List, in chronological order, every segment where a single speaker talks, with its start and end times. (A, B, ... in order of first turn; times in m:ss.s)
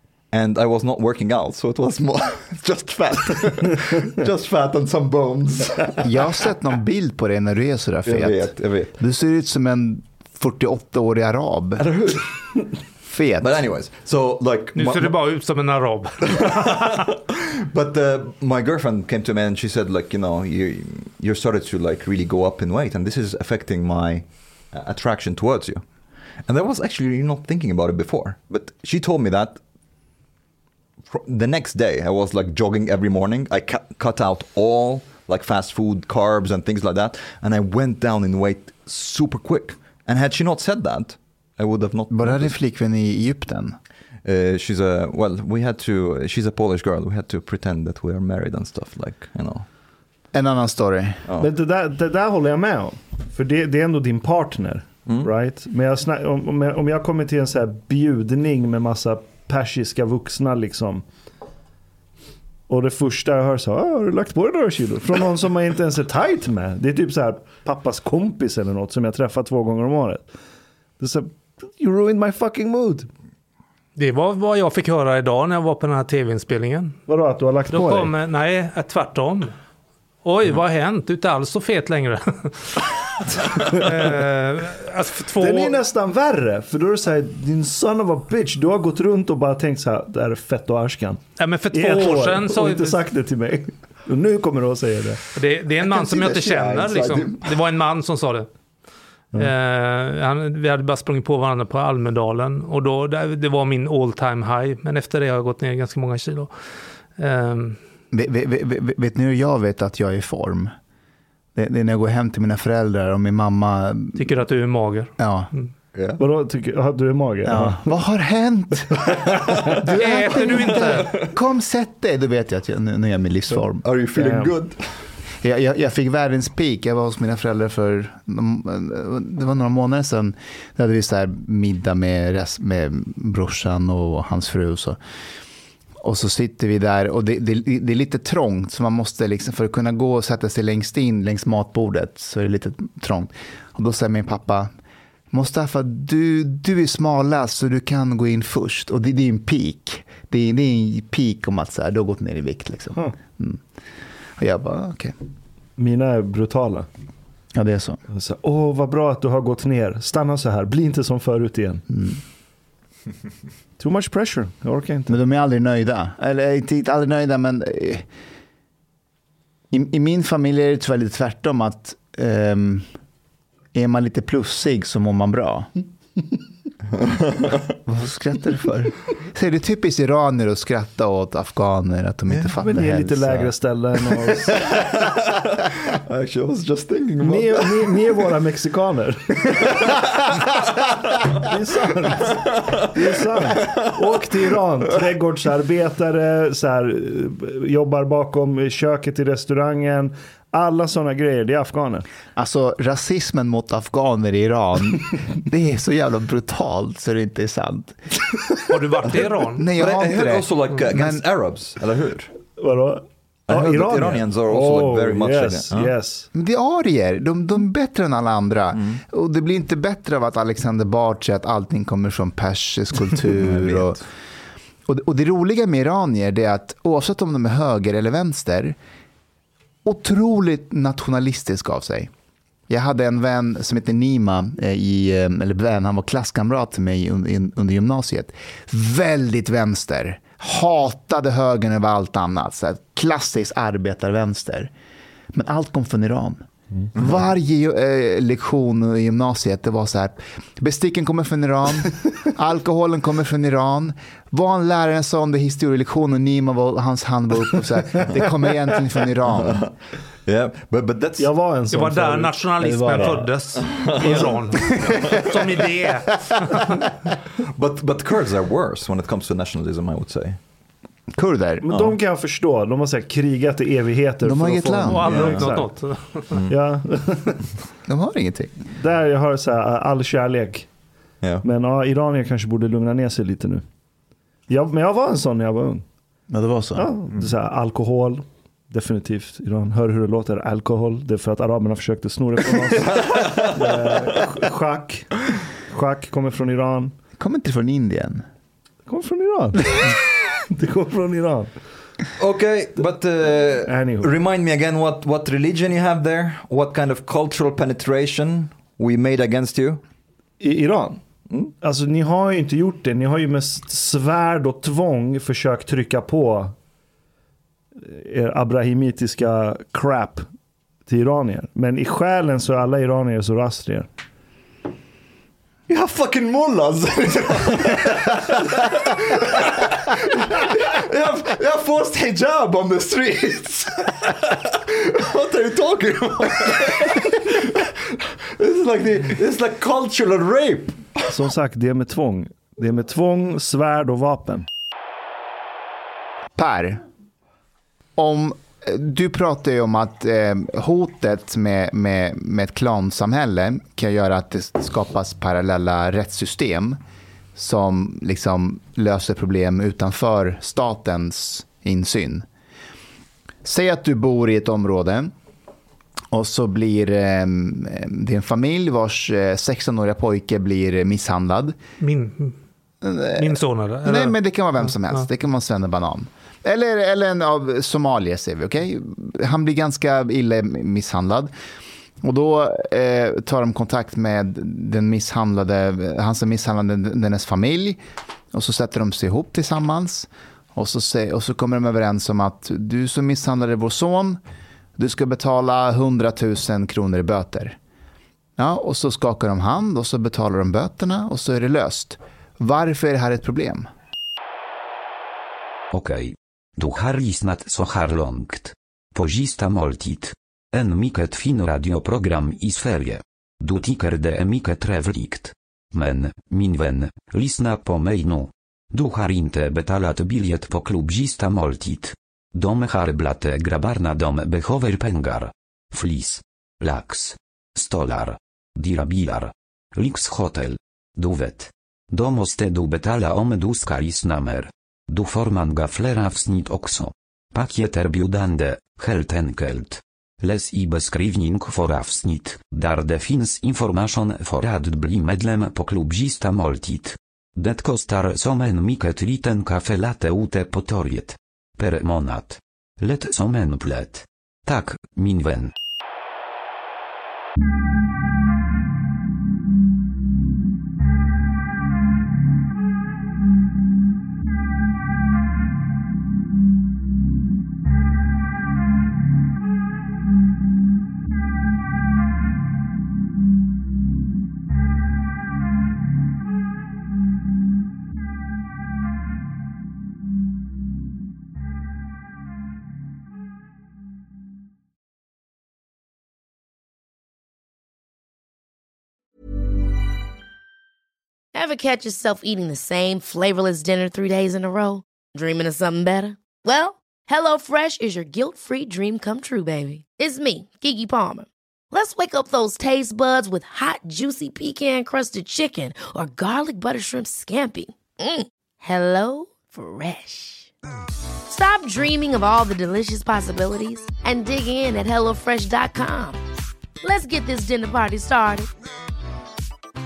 0:00.3-0:06.1 A
0:06.0-0:11.9 B
0:08.0-0:09.0 A
0:11.9-0:12.3 A
0:13.1-0:13.5 B
0:13.4-0:15.2 A
0:14.7-0:16.9 C
0:16.3-0:25.8 A
0:26.4-0:29.6 A
0:31.1-0:42.5 A
0:42.1-0:43.8 B
0:44.2-0:49.7 A
0:50.3-0:51.2 B
0:51.4-1:01.0 D
0:55.0-0:55.3 A
1:02.7-1:10.3 D
1:11.0-1:13.1 D
1:14.0-1:17.0 C
1:17.1-1:18.1 D
1:17.7-1:19.5 C
1:20.2-1:25.8 C
1:25.4-1:35.2 D
1:31.4-1:33.0 C
1:35.3-1:38.5 C
1:35.9-1:37.4 A
1:39.4-1:46.5 C
1:47.2-1:47.8 C
1:48.1-1:50.7 B
1:51.5-1:54.3 B
1:54.2-1:55.7 C
1:55.2-1:55.5 B
1:55.9-1:56.2 A
1:56.2-1:57.9 D
1:57.4-1:59.2 B
1:59.8-2:04.0 B
2:00.0-2:01.1 C
2:00.8-2:01.1 A
2:03.8-2:05.1 A
2:04.1-2:04.5 D
2:05.4-2:15.0 B
2:16.0-2:24.7 B
2:25.3-2:33.6 B
2:34.4-2:35.1 B
2:35.8-2:36.9 D
2:37.5-2:38.0 B
2:38.1-2:41.8 D
2:41.9-2:42.2 B
2:43.8-2:45.1 D
2:45.1-2:48.1 B
2:49.7-2:52.9 B
2:53.7-2:55.7 B
2:57.8-3:03.5 B
3:02.3-3:02.5 A
3:02.6-3:04.6 D
3:04.6-3:08.0 A
3:07.2-3:09.4 D
3:09.4-3:10.0 A
3:11.4-3:12.4 D
3:12.2-3:14.6 A
3:12.9-3:22.1 D
3:22.4-3:28.3 B
3:28.7-3:29.6 C
3:29.3-3:31.2 B
3:29.7-3:32.3 A
3:32.6-3:36.3 D
3:33.5-3:35.9 A
3:36.3-3:44.0 B
3:43.4-3:44.0 A
3:44.8-3:48.8 B
3:49.8-3:52.1 B
3:52.7-4:04.7 B
4:05.3-4:06.4 B
4:06.9-4:19.6 B
4:20.2-4:21.3 A
4:21.2-4:23.1 D
4:21.7-4:26.8 C
4:22.6-4:23.3 B
4:23.7-4:24.3 A
4:24.0-4:24.4 D
4:24.6-4:25.0 B
4:27.5-4:30.4 A
4:31.1-4:31.6 B
4:31.6-4:35.6 D
4:31.7-4:32.0 A
4:34.2-4:35.6 B
4:34.9-4:36.3 C
4:35.1-4:35.4 A
4:36.5-4:37.4 D
4:37.9-4:38.6 B
4:38.7-4:40.7 D
4:41.4-4:43.6 D
4:44.5-4:45.8 D
4:46.3-4:46.9 B
4:46.8-4:55.1 D
4:53.1-4:53.8 A
4:55.7-4:56.9 D
4:57.2-4:58.2 B
4:58.9-4:59.9 D
5:00.5-5:01.5 D
5:02.2-5:09.8 A
5:03.6-5:04.1 D
5:10.4-5:11.0 D
5:11.6-5:16.5 D
5:17.8-5:20.3 D
5:20.8-5:23.9 D
5:25.7-5:41.1 A
5:41.1-5:44.4 D
5:46.4-5:46.8 B
5:48.0-5:56.8 B
5:57.4-6:02.2 B
6:03.4-6:05.1 B
6:06.1-6:11.6 B
6:11.8-6:12.4 C
6:12.8-6:21.3 B
6:13.2-6:15.0 C
6:22.0-6:27.8 B
6:28.3-6:34.2 B
6:34.8-6:37.6 B
6:38.4-6:43.7 B
6:45.7-7:35.5 E
8:11.3-8:30.5 F
8:31.3-8:36.2 F
8:36.8-8:38.5 F